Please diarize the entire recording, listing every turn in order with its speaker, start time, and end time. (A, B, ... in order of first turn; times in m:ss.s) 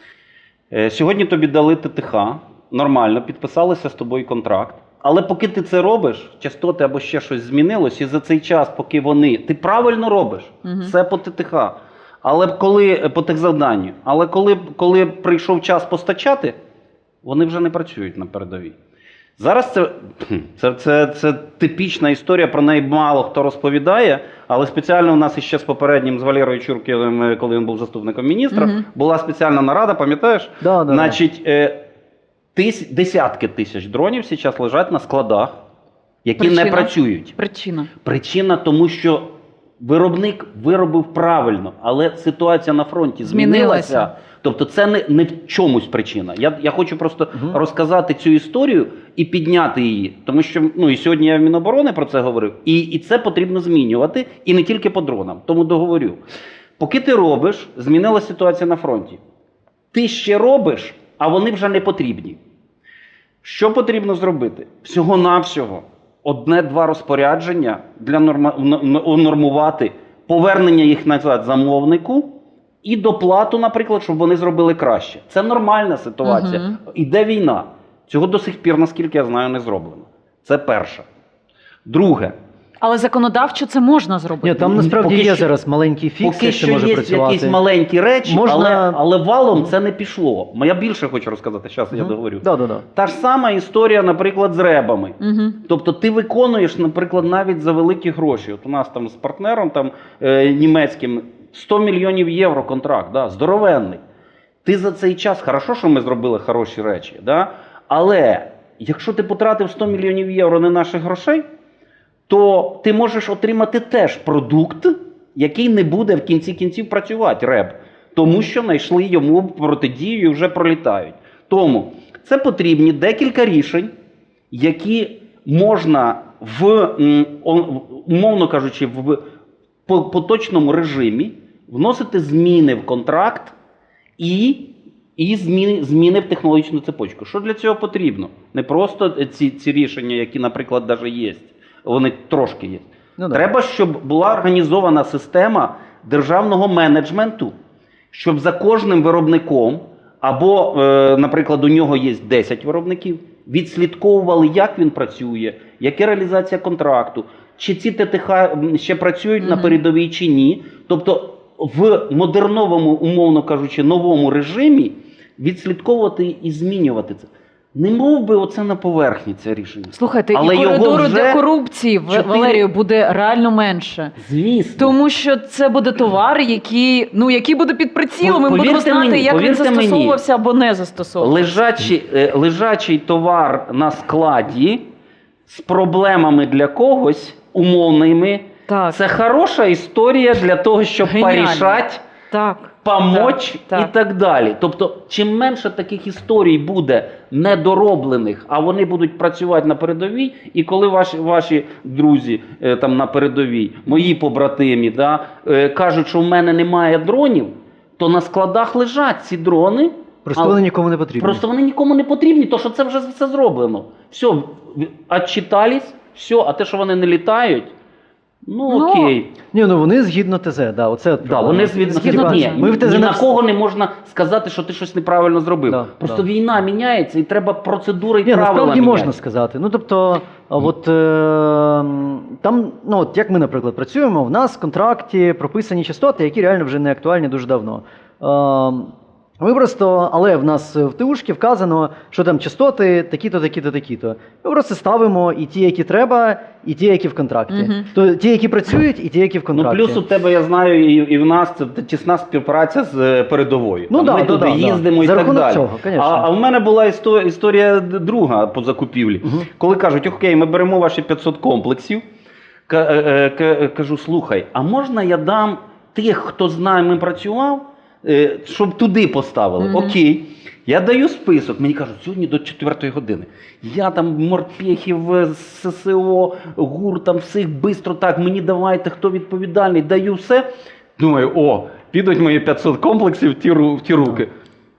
0:00.7-0:16.5 A
0:10.6-0:10.9 B
0:17.2-0:18.7 A
0:19.4-0:31.8 A
0:28.5-0:28.8 B
0:30.6-0:31.2 C
0:32.5-0:35.5 A
0:36.2-0:37.3 A
0:36.4-0:37.9 B
0:38.0-0:39.3 A
0:39.8-0:56.2 A
0:43.2-0:44.1 B
0:47.3-0:47.6 C
0:56.8-0:59.2 A
0:59.9-1:02.4 A
1:03.4-1:12.3 A
1:12.8-1:21.0 A
1:16.2-1:16.8 B
1:21.9-1:22.3 A
1:22.8-1:24.8 B
1:24.4-1:27.6 C
1:24.8-1:25.5 A
1:26.2-1:32.4 A
1:28.2-1:29.0 C
1:31.9-1:32.8 C
1:33.0-1:35.1 A
1:35.2-1:35.6 B
1:35.7-1:44.0 A
1:44.6-1:51.4 A
1:52.3-2:03.9 A
2:04.5-2:09.2 A
2:09.9-2:13.5 A
2:14.2-2:14.6 A
2:15.2-2:27.5 A
2:23.2-2:23.5 C
2:28.1-2:51.4 A
2:39.4-2:39.8 B
2:49.9-2:54.1 B
2:52.1-2:52.6 A
2:54.2-2:54.9 A
2:54.8-3:01.6 B
2:58.2-3:00.2 A
3:01.2-3:04.8 A
3:05.5-3:11.9 A
3:08.7-3:09.0 B
3:11.0-3:13.9 B
3:12.8-3:30.6 A
3:30.2-3:31.4 C
3:31.2-3:37.7 A
3:38.4-3:39.3 A
3:38.7-3:39.1 B
3:39.5-3:43.4 C
3:41.2-3:49.1 A
3:41.8-3:42.7 B
3:45.6-3:46.2 C
3:48.2-4:10.0 C
4:07.5-4:07.8 B
4:09.5-4:22.0 A
4:13.9-4:16.3 C
4:22.7-4:40.4 A
4:29.6-4:30.0 B
4:41.0-4:44.3 A